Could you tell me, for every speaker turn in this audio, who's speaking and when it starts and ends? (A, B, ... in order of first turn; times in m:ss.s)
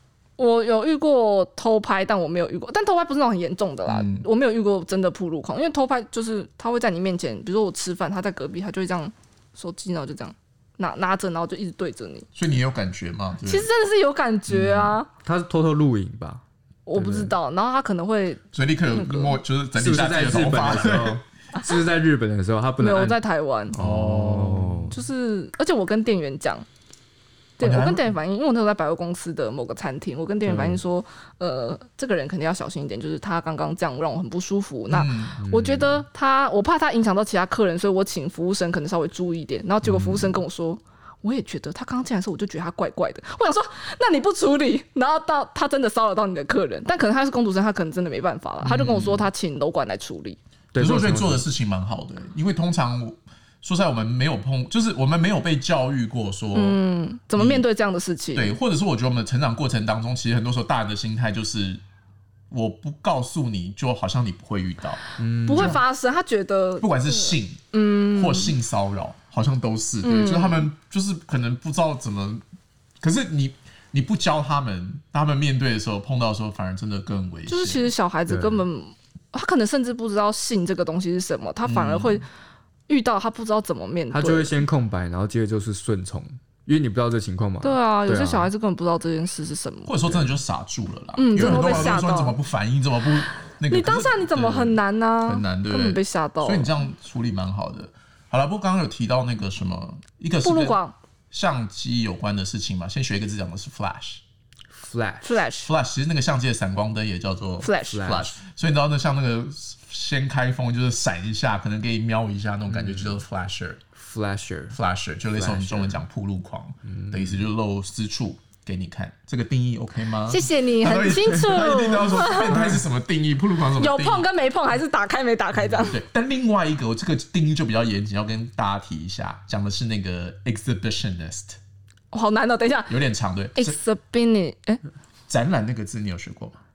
0:00.4-0:12.3 A
0:03.9-0:04.3 B
0:12.4-0:13.7 B
0:13.5-0:15.1 A
0:14.6-0:14.9 B
0:15.2-0:16.4 C
0:16.9-0:18.4 A
0:17.0-0:17.3 C
0:18.5-0:21.2 B
0:18.9-0:19.4 A
0:19.8-0:23.2 C
0:22.8-0:23.8 A
0:23.7-0:25.0 C
0:23.8-0:25.0 B
0:24.9-0:26.6 A
0:27.6-0:50.4 A
0:27.6-0:28.1 B
0:30.4-0:30.8 C
0:34.9-0:36.0 B
0:39.8-0:40.3 C
0:48.6-0:49.3 B
0:50.7-0:51.4 C
0:50.8-0:56.8 B
0:56.5-0:58.6 A
0:57.4-0:57.6 B
0:58.4-1:01.8 B
1:02.5-1:05.8 B
1:05.2-1:05.8 C
1:05.4-1:08.5 A
1:06.8-1:12.4 B
1:10.0-1:10.7 A
1:13.0-1:17.9 B
1:17.5-1:22.3 A
1:18.3-1:18.6 C
1:21.6-1:22.2 B
1:22.9-1:24.6 A
1:24.1-1:28.5 C
1:27.6-1:29.9 A
1:29.9-1:40.8 B
1:31.2-1:32.4 A
1:33.7-1:36.7 A
1:40.4-1:41.0 A
1:41.3-1:44.2 B
1:44.7-1:45.3 C
1:45.2-1:45.7 A
1:45.7-1:53.8 B
1:47.6-1:48.2 A
1:47.9-1:48.3 C
1:52.7-1:53.2 C
1:54.0-1:54.8 C
1:54.7-2:04.3 B
1:55.4-1:56.0 C
1:56.9-1:57.4 C
2:00.3-2:02.6 A
2:02.5-2:02.8 C
2:03.8-2:06.0 A
2:05.8-2:11.6 B
2:12.1-2:13.0 A
2:12.9-2:13.8 B
2:13.6-2:14.8 A
2:15.3-2:16.6 B